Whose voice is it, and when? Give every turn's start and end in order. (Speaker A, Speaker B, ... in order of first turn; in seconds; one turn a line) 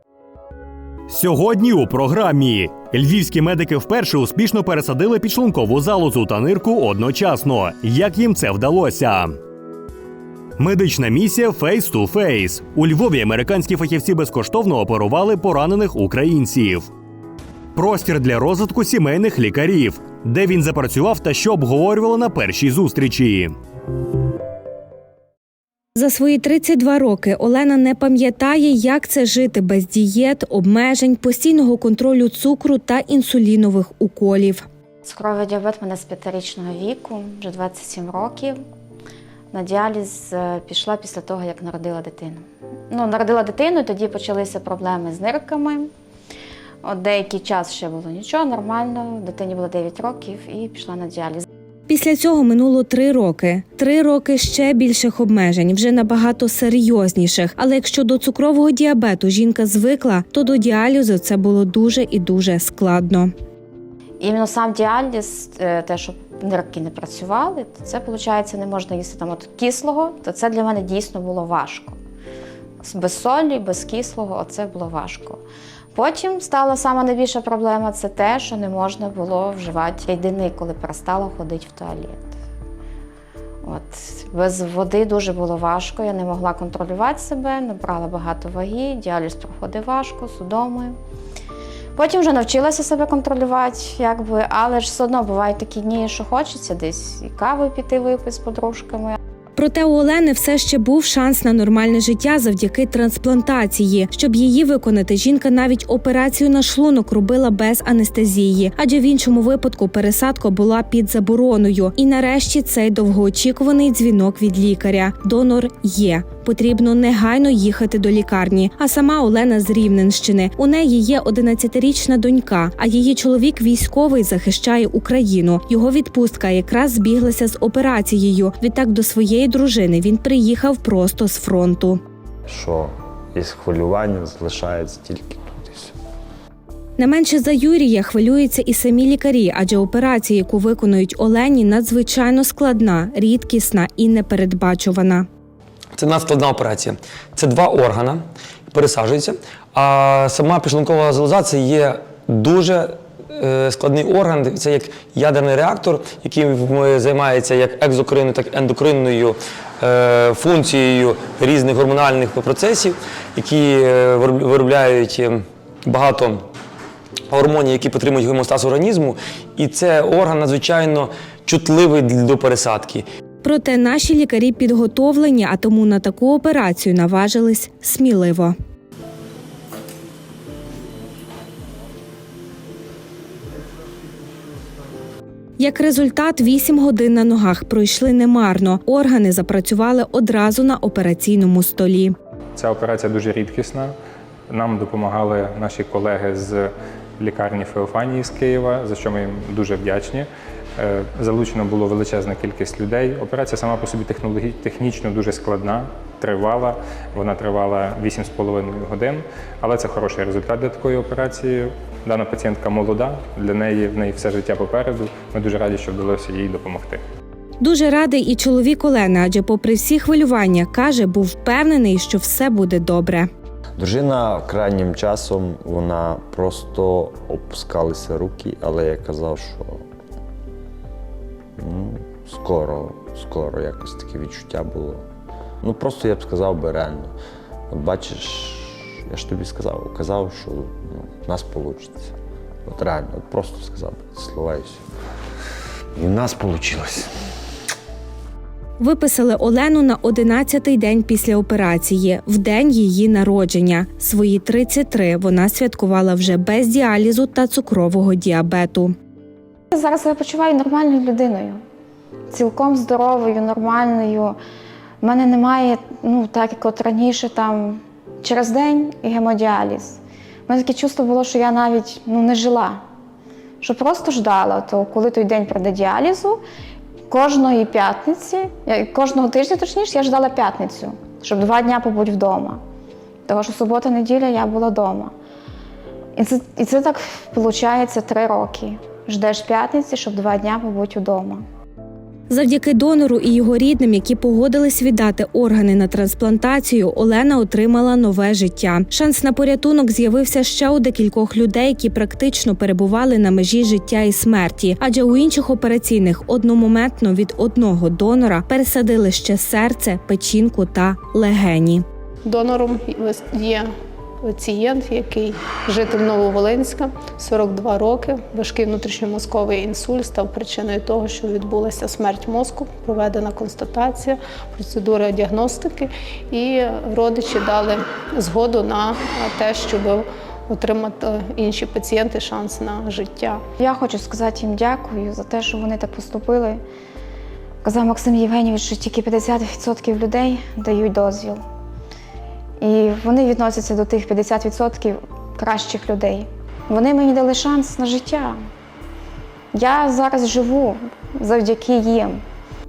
Speaker A: 1.1-9.3
Speaker A: 10.6-16.9
Speaker A: 17.8-23.5
Speaker B: 25.9-34.6
Speaker C: 35.0-38.5
Speaker C: 39.5-45.9
Speaker C: 46.8-51.5
Speaker B: 51.9-63.3
Speaker C: 64.2-72.0
Speaker C: 72.8-75.4
Speaker C: 75.9-82.3
Speaker C: 83.6-91.0
Speaker C: 92.0-99.2
Speaker B: 99.6-132.0
Speaker D: 132.5-135.9
Speaker B: 137.0-145.2
Speaker E: 146.0-166.4
Speaker E: 167.3-173.1
Speaker B: 173.4-178.5
Speaker B: 185.6-192.2
Speaker F: 192.6-193.9
Speaker F: 194.5-217.0
Speaker B: 217.6-223.3
Speaker D: 223.8-229.8
Speaker D: 231.6-235.0
Speaker D: 235.6-237.1
Speaker D: 237.7-242.1
Speaker D: 242.7-244.8
Speaker D: 245.9-247.1
Speaker B: 248.8-258.9
Speaker C: 259.7-261.6
Speaker C: 262.3-264.4
Speaker C: 265.0-272.8
Speaker C: 273.6-276.4
Speaker C: 277.1-282.6
Speaker C: 283.3-285.1
Speaker C: 286.2-291.4
Speaker B: 292.3-311.9
Speaker G: 312.3-313.7
Speaker G: 314.2-333.4
Speaker C: 333.6-336.6
Speaker C: 337.6-341.4
Speaker C: 342.6-348.4
Speaker C: 349.5-352.2